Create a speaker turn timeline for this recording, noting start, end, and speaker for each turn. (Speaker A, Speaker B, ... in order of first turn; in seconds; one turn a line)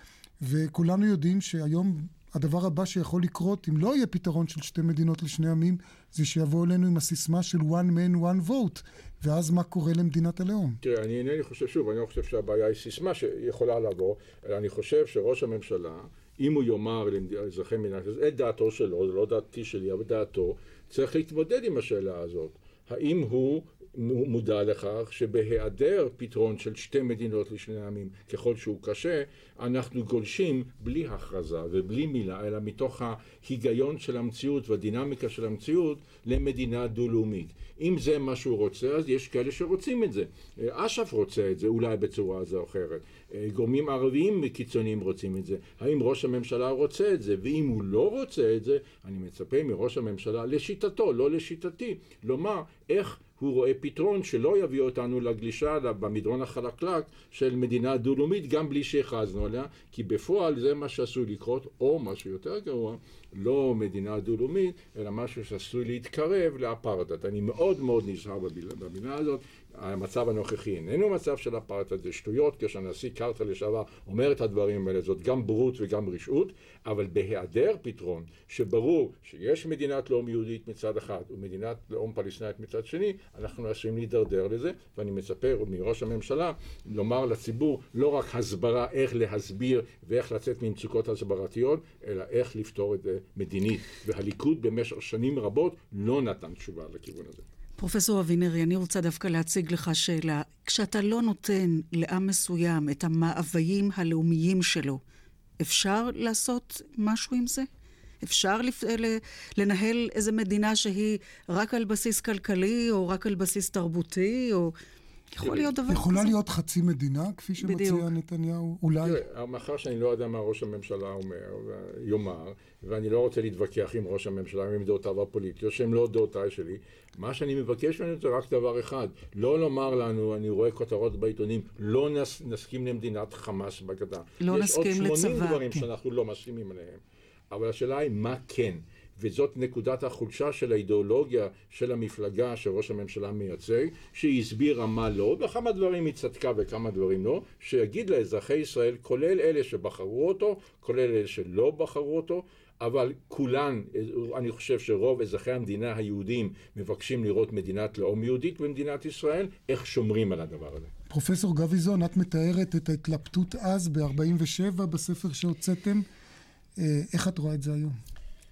Speaker A: 0.4-10.8
Speaker B: 10.8-97.4
Speaker C: 97.8-105.0
Speaker C: 105.6-107.7
Speaker C: 108.2-114.7
Speaker C: 115.3-116.3
Speaker B: 115.4-115.7
Speaker A: 115.9-119.2
Speaker C: 117.6-118.1
Speaker B: 119.0-160.9
Speaker C: 134.4-135.8
Speaker A: 161.1-166.1
Speaker A: 166.8-168.0